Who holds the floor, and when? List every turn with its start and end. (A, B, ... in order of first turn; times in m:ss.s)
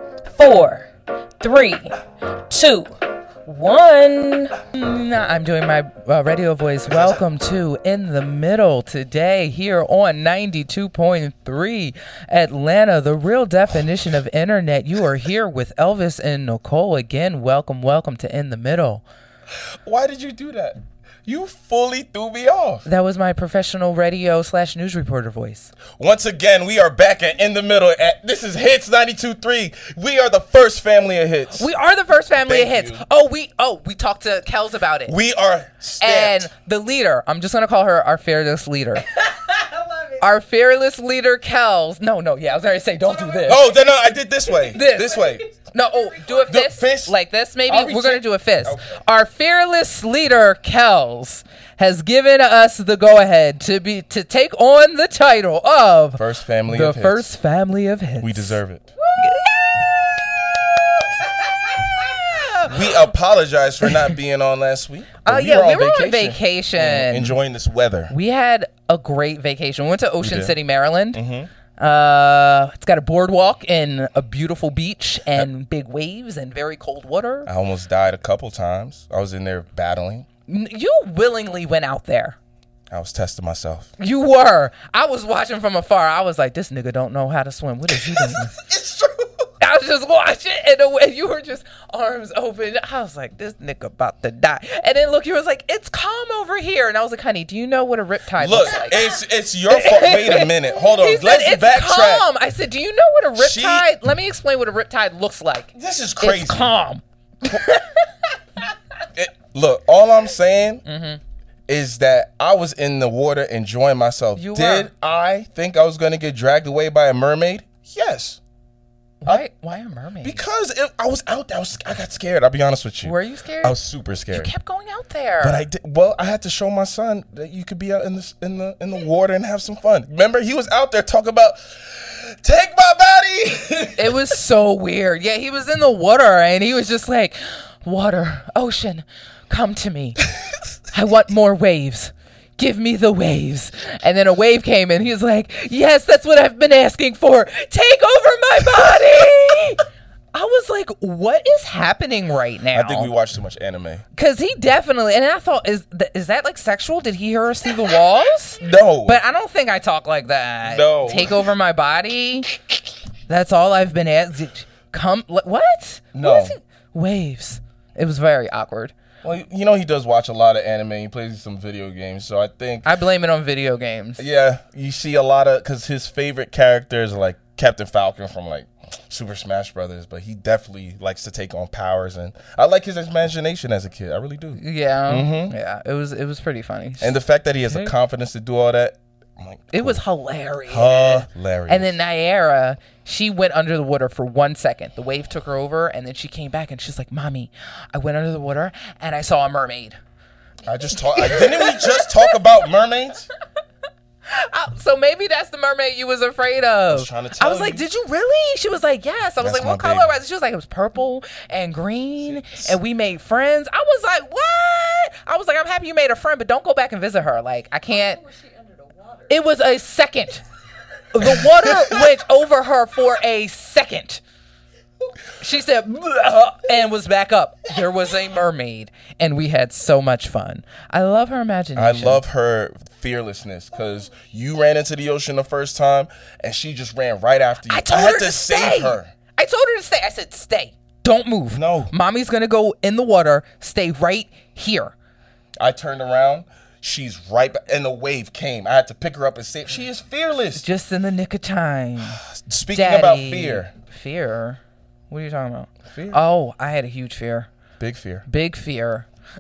0:00.3-0:00.9 A
0:01.4-0:02.0 A
0:02.5-0:02.9 A
0:03.4-0:04.6 A
0:04.7-0:19.0 B
0:19.8-0:22.8 C
0:22.8-0:25.7 B
0:25.9-0:31.7 C
0:31.6-0:35.1 B
0:32.4-0:33.0 C
0:35.1-0:36.5 C
0:36.0-0:39.0 B
0:40.2-0:43.6 B
0:43.4-0:45.5 C
0:44.7-0:58.6 B
0:46.3-0:47.2 C
0:47.7-0:49.0 C
0:56.2-0:57.3 C
0:58.2-0:58.9 C
0:59.2-1:00.1 B
1:02.2-1:02.8 B
1:02.7-1:08.1 C
1:05.2-1:07.4 B
1:08.1-1:11.2 B
1:10.2-1:10.6 C
1:11.1-1:11.5 C
1:11.8-1:17.5 B
1:17.5-1:20.3 C
1:20.5-1:22.4 B
1:22.9-1:23.9 C
1:24.0-1:28.6 B
1:28.0-1:29.2 C
1:29.6-1:39.0 B
1:38.4-1:42.3 C
1:39.7-1:48.0 B
1:43.4-1:43.9 C
1:45.8-1:46.7 C
1:49.2-1:50.8 C
1:50.8-1:51.2 B
1:51.7-1:58.4 C
1:54.4-1:54.9 B
1:59.2-2:00.4 B
2:00.2-2:04.5 C
2:03.0-2:03.8 B
2:04.3-2:05.6 B
2:05.4-2:14.2 C
2:14.0-2:20.2 B
2:20.9-2:29.8 B
2:30.3-2:33.1 B
2:32.7-2:34.0 C
2:34.2-2:42.6 B
2:38.6-2:39.2 C
2:40.6-2:41.5 C
2:43.3-2:48.9 B
2:46.1-2:46.6 C
2:49.2-2:52.9 C
2:52.8-2:54.2 B
2:54.2-3:05.6 C
3:04.6-3:07.9 B
3:07.0-3:10.0 C
3:09.7-3:20.0 B
3:10.7-3:12.0 C
3:20.7-3:23.3 C
3:21.2-3:22.1 B
3:24.3-3:38.2 B
3:26.9-3:27.8 C
3:29.4-3:30.1 C
3:32.2-3:32.8 C
3:39.3-3:40.4 B
3:41.1-3:44.2 B
3:45.4-3:52.2 B
3:51.8-3:59.1 C
3:57.7-4:04.9 B
4:01.5-4:01.9 C
4:05.6-4:10.6 C
4:10.6-4:12.2 B
4:12.0-4:13.7 C
4:12.7-4:17.5 B
4:15.9-4:16.2 C
4:17.8-4:18.2 C
4:18.3-4:19.1 B